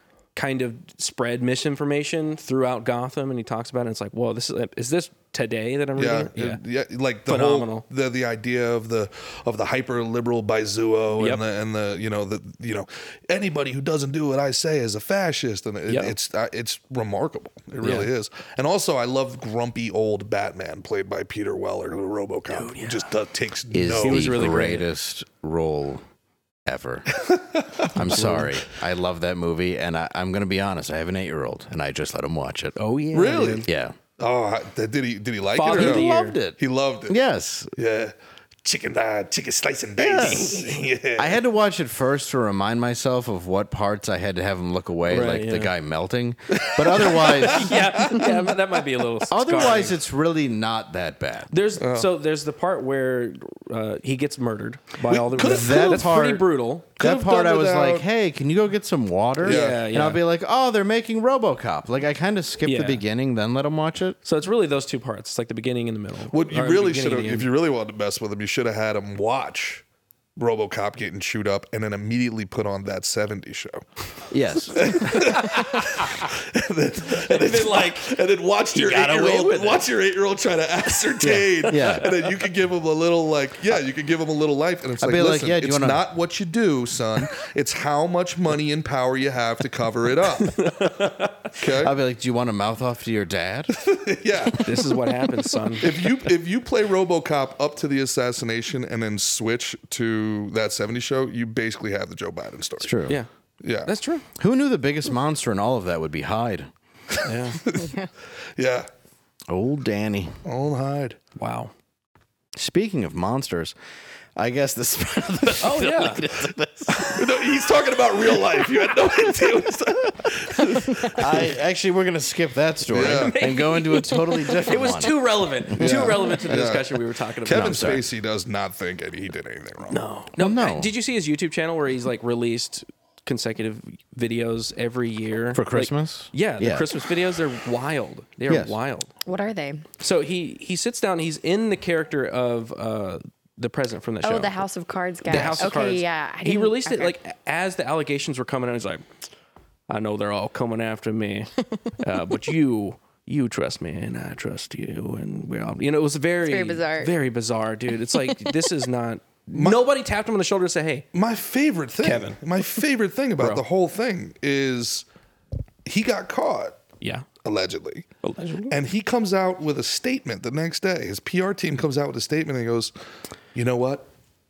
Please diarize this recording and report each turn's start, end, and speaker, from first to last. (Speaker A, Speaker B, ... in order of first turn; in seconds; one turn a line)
Speaker A: 0.3-6.6
Speaker B: 6.0-24.5
Speaker A: 7.3-7.8
Speaker A: 11.1-11.4
Speaker A: 15.9-16.1
Speaker A: 17.8-18.1
Speaker A: 22.5-23.1
Speaker C: 23.7-26.0
Speaker A: 23.9-24.9
Speaker C: 26.6-27.1
Speaker B: 27.2-27.9
Speaker C: 27.8-32.8
Speaker A: 28.1-28.4
Speaker A: 32.8-33.7
Speaker B: 33.1-37.2
Speaker C: 33.6-34.0
Speaker A: 35.5-36.4
Speaker C: 35.7-37.7
Speaker B: 37.8-41.4
Speaker C: 40.0-40.6
Speaker A: 40.0-40.8
Speaker C: 41.2-48.3
Speaker A: 45.0-45.7
Speaker B: 46.5-48.3
Speaker A: 47.0-50.0
Speaker C: 49.3-51.5
Speaker A: 51.5-56.9
Speaker B: 51.8-52.1
Speaker B: 55.0-56.1
Speaker C: 55.4-64.2
Speaker B: 57.0-58.0
Speaker A: 59.4-60.2
Speaker B: 59.4-59.9
Speaker A: 62.6-63.0
Speaker A: 64.2-67.5
Speaker B: 66.3-69.8
Speaker B: 70.4-73.8
Speaker C: 74.3-75.2
Speaker B: 74.8-90.7
Speaker A: 75.5-75.8
Speaker A: 77.1-78.2
Speaker A: 78.7-79.8
Speaker C: 81.2-82.2
Speaker C: 85.0-86.1
Speaker A: 90.6-91.3
Speaker B: 91.5-92.0
Speaker C: 91.7-93.8
Speaker B: 93.7-94.8
Speaker A: 94.6-95.9
Speaker B: 95.8-103.0
Speaker C: 102.8-103.2
Speaker B: 103.6-103.9
Speaker A: 103.8-104.2
Speaker C: 104.4-106.7
Speaker A: 107.2-107.6
Speaker B: 107.6-107.9
Speaker D: 107.8-108.1
Speaker B: 108.5-108.9
Speaker C: 109.5-110.4
Speaker B: 110.4-111.2
Speaker A: 111.4-111.7
Speaker C: 112.5-113.8
Speaker C: 114.3-117.2
Speaker A: 115.6-116.2
Speaker B: 117.0-121.4
Speaker C: 120.9-126.4
Speaker B: 122.9-123.4
Speaker A: 123.0-128.0
Speaker B: 125.8-130.0
Speaker C: 127.5-128.1
Speaker A: 129.9-139.1
Speaker C: 130.4-130.9
Speaker C: 135.5-136.9
Speaker C: 138.5-138.8
Speaker D: 139.2-139.8
Speaker A: 140.0-144.6
Speaker D: 144.2-147.1
Speaker A: 145.2-149.0
Speaker C: 145.3-145.6
Speaker A: 149.9-161.1
Speaker D: 156.4-157.2
Speaker B: 159.5-159.8
Speaker B: 161.1-165.0
Speaker A: 162.0-162.4
Speaker A: 163.4-163.6
Speaker B: 165.8-166.8
Speaker A: 167.0-167.2
Speaker B: 167.4-168.1
Speaker A: 168.2-168.7
Speaker B: 168.7-172.9
Speaker B: 173.5-174.1